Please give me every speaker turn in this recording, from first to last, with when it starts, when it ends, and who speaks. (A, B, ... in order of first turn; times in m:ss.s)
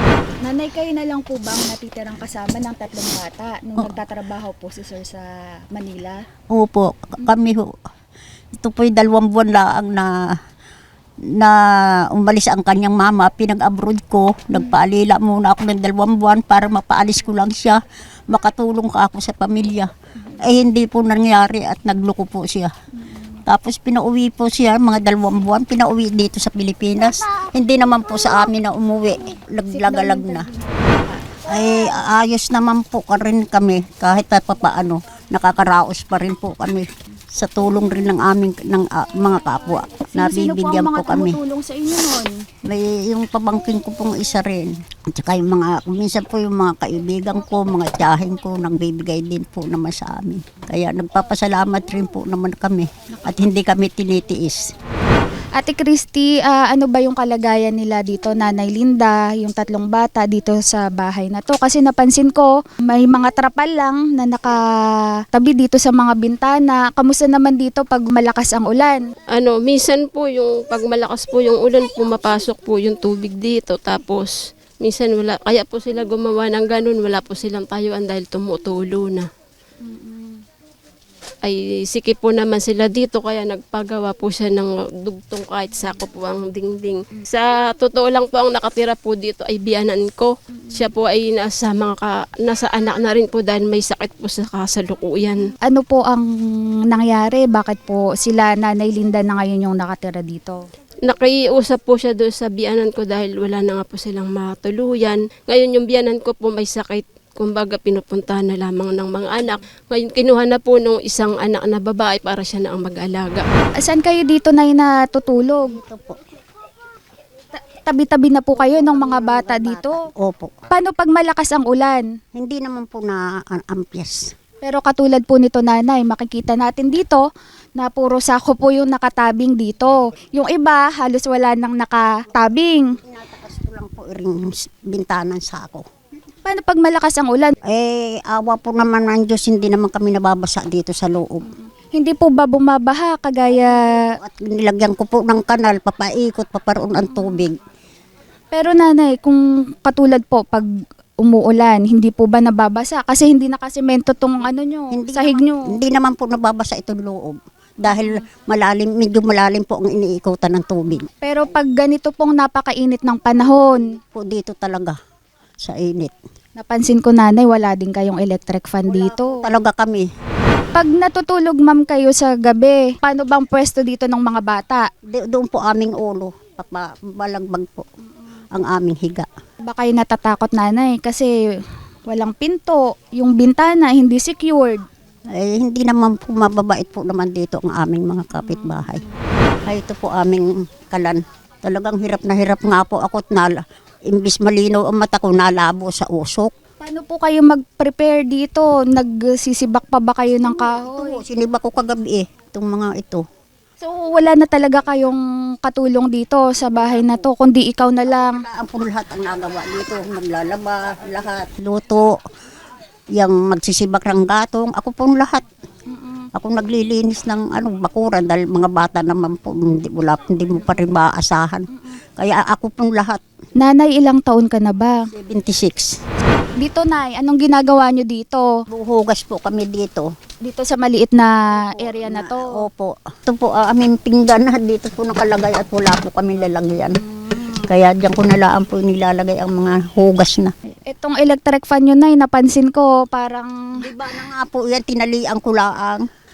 0:00.4-0:06.2 A
0:06.5-0:07.8 B
0:08.5-0:10.4 B
0:12.1-0:22.7 B
0:23.5-0:30.5 B
0:29.7-0:31.0 A
0:31.4-0:41.4 B
0:40.1-0:42.5 A
0:42.6-0:54.7 B
0:55.6-1:09.0 A
1:09.4-1:19.3 C
1:21.4-1:35.5 C
1:35.6-1:40.6 A
1:41.0-1:53.5 C
1:53.8-1:55.7 A
1:55.7-1:56.2 B
1:57.7-2:00.1 A
1:58.6-2:00.5 B
2:00.7-2:02.1 A
2:02.3-2:04.3 B
2:04.6-2:07.2 A
2:07.8-2:13.0 A
2:13.0-2:15.8 B
2:16.4-2:17.6 A
2:17.6-2:21.5 B
2:21.9-2:23.9 A
2:23.6-2:27.6 B
2:28.5-2:30.7 A
2:31.2-2:35.7 A
2:34.9-2:41.1 B
2:41.2-2:44.0 A
2:44.1-2:45.0 B
2:45.6-2:46.1 B
2:46.6-2:49.4 A
2:48.9-2:50.1 B
2:50.8-2:54.9 A
2:55.1-2:57.9 B
2:58.5-2:59.3 B
2:59.6-3:01.3 A
3:02.1-3:04.8 A
3:05.3-3:09.0 B
3:09.7-3:16.5 B
3:16.8-3:21.2 A
3:20.6-3:23.2 B
3:23.8-3:28.4 A
3:28.2-3:32.2 B
3:33.2-3:35.4 B
3:35.9-3:36.3 A
3:36.4-3:43.2 B
3:43.6-3:45.1 A
3:45.1-3:46.0 B
3:46.6-3:48.5 A
3:48.7-3:50.1 B
3:50.4-3:52.6 A
3:51.6-3:57.0 B
3:57.6-4:00.5 B
4:00.9-4:03.6 A
4:03.8-4:06.1 B